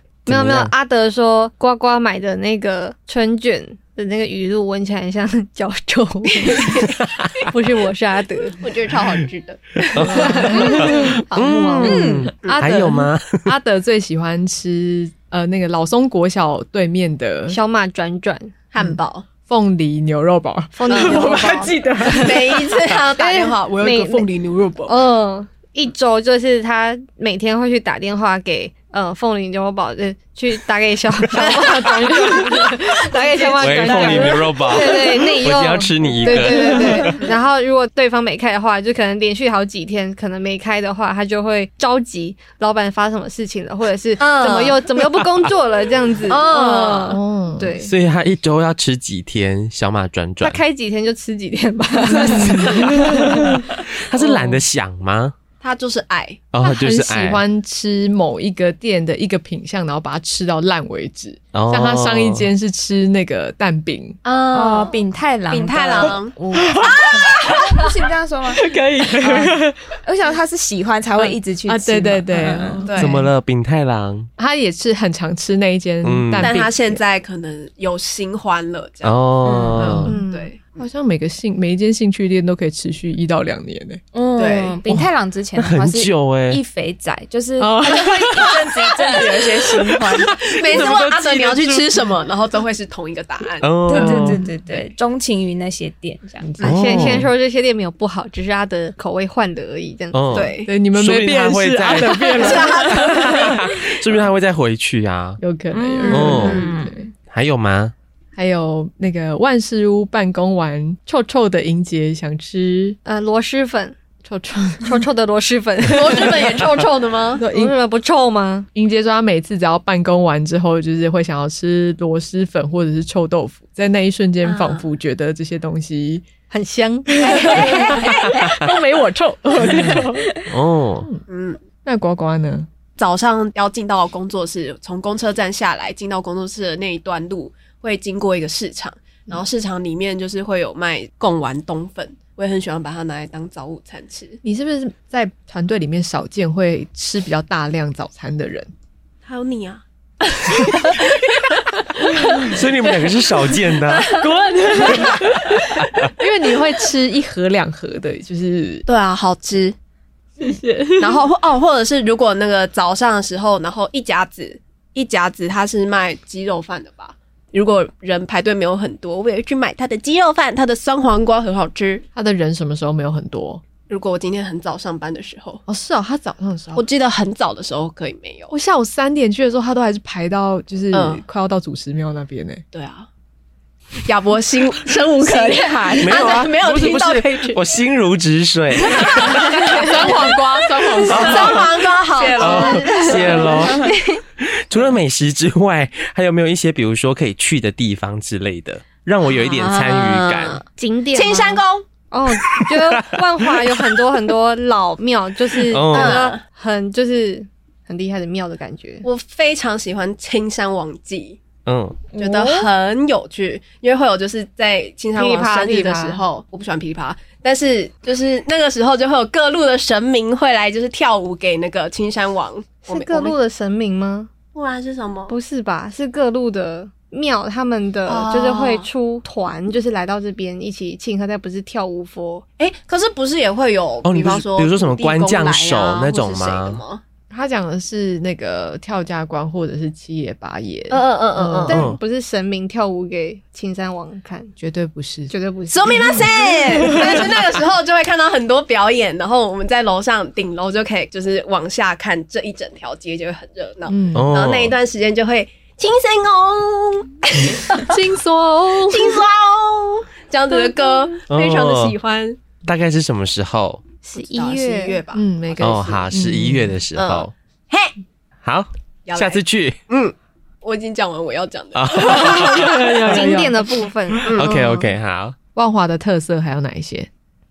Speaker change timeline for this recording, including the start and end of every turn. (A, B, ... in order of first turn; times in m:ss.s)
0:00.3-0:00.7 A
0:00.3-0:08.7 B
0:08.6-0:10.8 C
0:09.9-0:13.5 A
0:10.0-0:12.1 B
0:10.4-0:11.0 D
0:11.8-0:12.3 E
0:12.3-0:17.6 D
0:17.5-0:18.5 B
0:18.7-0:19.2 C
0:19.5-0:22.7 D
0:20.7-0:22.6 B
0:20.9-0:25.0 C
0:23.2-0:24.3 B
0:24.9-0:47.9 B
0:31.4-0:32.3 C
0:32.1-0:32.5 D
0:33.2-0:34.3 D
0:33.6-0:37.2 A
0:44.2-0:44.8 C
0:46.3-0:47.2 C
0:47.1-0:47.8 D
0:47.8-0:50.6 A
0:50.4-0:53.6 B
0:52.2-0:53.5 D
0:52.5-0:55.3 A
0:55.6-0:56.4 C
0:56.5-0:57.4 A
0:56.6-1:04.2 D
1:01.5-1:02.5 A
1:04.2-1:07.6 C
1:04.5-1:08.7 E
1:06.6-1:07.8 D
1:08.5-1:09.8 D
1:09.2-1:12.8 E
1:11.7-1:13.3 D
1:12.8-1:13.2 C
1:13.0-1:14.3 A
1:14.4-1:17.0 D
1:16.0-1:16.6 A
1:16.4-1:19.2 C
1:19.0-1:20.2 A
1:19.4-1:19.9 E
1:19.8-1:24.0 D
1:20.1-1:20.5 B
1:20.1-1:20.8 C
1:24.1-1:30.3 E
1:24.4-1:24.8 C
1:24.9-1:26.6 A
1:27.6-1:28.6 D
1:30.5-1:33.7 C
1:30.5-1:31.9 A
1:33.6-1:34.4 A
1:33.9-1:36.5 E
1:34.0-1:34.5 D
1:36.4-1:37.3 D
1:36.6-1:40.5 B
1:36.6-1:37.3 A
1:40.1-1:45.4 A
1:40.3-1:40.7 C
1:40.6-1:43.6 D
1:42.4-1:43.6 C
1:42.4-1:42.6 B
1:45.4-1:47.0 D
1:45.7-1:47.1 E
1:46.1-1:46.7 A
1:46.1-1:46.7 C
1:47.2-1:47.9 A
1:48.4-1:53.0 D
1:53.0-1:54.0 B
1:54.2-1:54.9 D
1:54.7-1:56.8 B
1:55.9-1:57.4 C
1:57.4-1:57.8 D
1:57.5-1:58.7 B
1:58.8-2:06.3 D
2:04.4-2:04.8 C
2:06.5-2:08.5 B
2:07.2-2:10.4 D
2:07.3-2:08.0 C
2:09.7-2:11.1 A
2:11.3-2:11.6 C
2:11.8-2:12.7 D
2:13.0-2:24.4 C
2:24.4-2:28.7 D
2:29.2-2:32.5 C
2:32.4-2:34.2 A
2:33.9-2:35.3 C
2:34.2-2:38.8 D
2:35.8-2:36.1 A
2:38.9-2:39.8 C
2:40.4-2:41.2 D
2:41.0-2:52.0 C
2:52.2-2:53.6 D
2:53.9-2:55.6 C
2:55.7-2:56.8 D
2:56.8-2:58.5 C
2:58.5-3:02.6 D
3:00.9-3:01.2 C
3:02.7-3:03.1 C
3:04.0-3:07.6 C
3:05.2-3:06.2 E
3:06.0-3:09.6 A
3:09.0-3:10.3 C
3:09.6-3:11.6 D
3:10.9-3:13.7 C
3:11.1-3:11.7 A
3:12.2-3:13.9 E
3:12.4-3:13.9 A
3:13.4-3:14.2 B
3:14.4-3:20.6 A
3:19.2-3:21.8 C
3:20.7-3:29.0 B
3:22.4-3:23.8 A
3:25.6-3:26.3 A
3:25.9-3:26.4 C
3:29.0-3:31.4 C
3:31.6-3:32.1 A
3:32.1-3:32.7 E
3:32.2-3:43.4 C
3:35.2-3:36.2 B
3:42.9-3:44.3 B
3:44.6-3:45.4 C
3:45.3-3:52.4 B
3:48.1-3:48.9 C
3:52.6-3:57.0 C
3:54.0-3:56.8 A
3:57.3-4:01.8 D
4:00.9-4:01.8 C
4:01.7-4:04.5 B
4:01.7-4:02.0 A
4:04.6-4:05.3 D
4:05.3-4:07.3 B
4:05.7-4:18.0 C
4:06.8-4:07.2 D
4:13.9-4:14.3 D
4:14.1-4:14.8 A
4:17.8-4:19.2 D
4:18.8-4:22.4 C
4:21.3-4:22.0 A
4:22.6-4:23.8 A
4:24.0-4:25.0 B
4:24.1-4:26.1 C
4:25.1-4:26.8 D
4:25.6-4:27.3 A
4:27.0-4:28.0 C
4:28.4-4:29.8 A
4:29.1-4:33.3 C
4:31.8-4:32.8 A
4:32.0-4:34.5 D
4:32.0-4:34.9 B
4:34.3-4:35.4 A
4:35.6-4:37.1 D